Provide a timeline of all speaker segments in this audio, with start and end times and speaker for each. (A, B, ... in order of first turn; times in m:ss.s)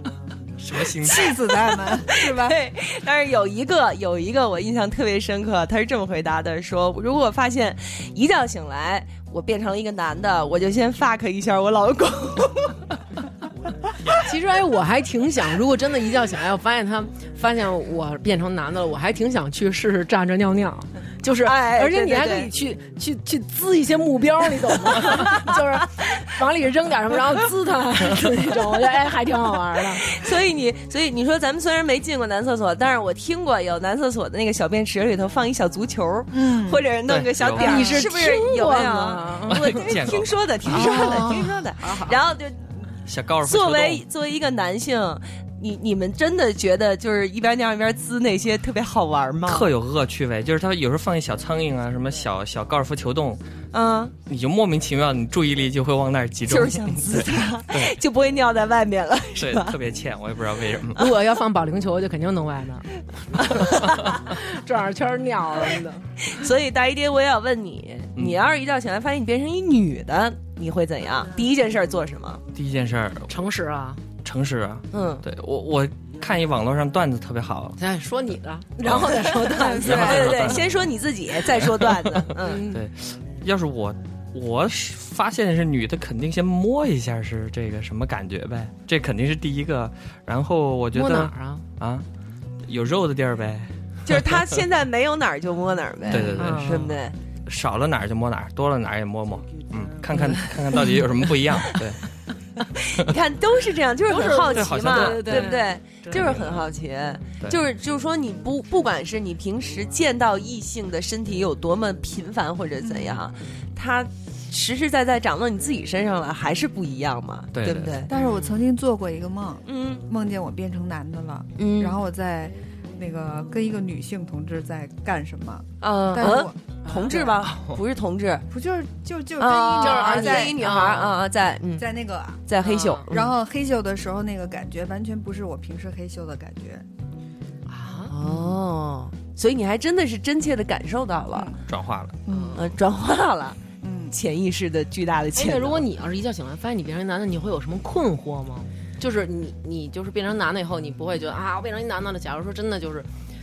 0:00.6-0:01.5 A
0:01.0-0:02.6 B
0:01.7-0:12.8 C
0:14.2-0:30.2 D
0:21.4-0:22.5 C
0:24.9-0:25.5 C
0:30.0-0:42.9 C
0:36.3-0:36.8 B
0:37.1-0:37.9 A
0:37.6-0:39.8 D
0:39.5-0:40.6 A
0:40.7-0:41.6 B
0:40.7-0:42.2 D
0:43.0-0:44.0 A
0:43.4-0:49.7 C
0:49.4-0:53.4 A
0:53.7-0:54.1 C
0:54.2-0:58.0 A
0:56.5-0:59.8 C
0:59.4-1:01.1 A
1:01.0-1:02.9 D
1:03.6-1:06.1 D
1:03.7-1:04.0 C
1:06.2-1:12.4 C
1:12.5-1:13.3 A
1:13.3-1:14.0 D
1:14.2-1:17.8 A
1:14.9-1:15.2 C
1:17.8-1:20.6 D
1:18.8-1:20.9 A
1:19.4-1:22.6 C
1:19.6-1:20.3 B
1:21.6-1:32.0 A
1:22.4-1:22.8 D
1:30.9-1:31.6 D
1:32.6-1:34.5 A
1:34.0-1:37.1 C
1:36.1-1:36.9 A
1:36.1-1:36.9 D
1:37.4-1:42.0 A
1:42.8-1:58.1 C
1:44.1-1:45.7 D
1:44.5-1:46.6 A
1:52.8-1:53.2 B
1:57.5-1:58.0 A
1:58.1-2:06.5 B
1:58.1-1:58.6 D
1:59.6-2:00.0 C
2:01.6-2:02.0 C
2:05.8-2:08.5 C
2:06.8-2:07.3 D
2:07.1-2:07.4 B
2:07.4-2:07.8 A
2:08.5-2:10.6 B
2:09.4-2:11.9 C
2:09.8-2:11.2 D
2:11.8-2:12.4 B
2:12.5-2:13.3 C
2:12.6-2:13.1 D
2:13.1-2:16.8 B
2:17.7-2:18.5 D
2:18.1-2:21.5 C
2:21.3-2:21.6 B
2:21.7-2:22.2 A
2:22.3-2:22.6 B
2:22.3-2:22.6 D
2:22.5-2:25.8 C
2:23.8-2:24.1 B
2:25.4-2:33.1 D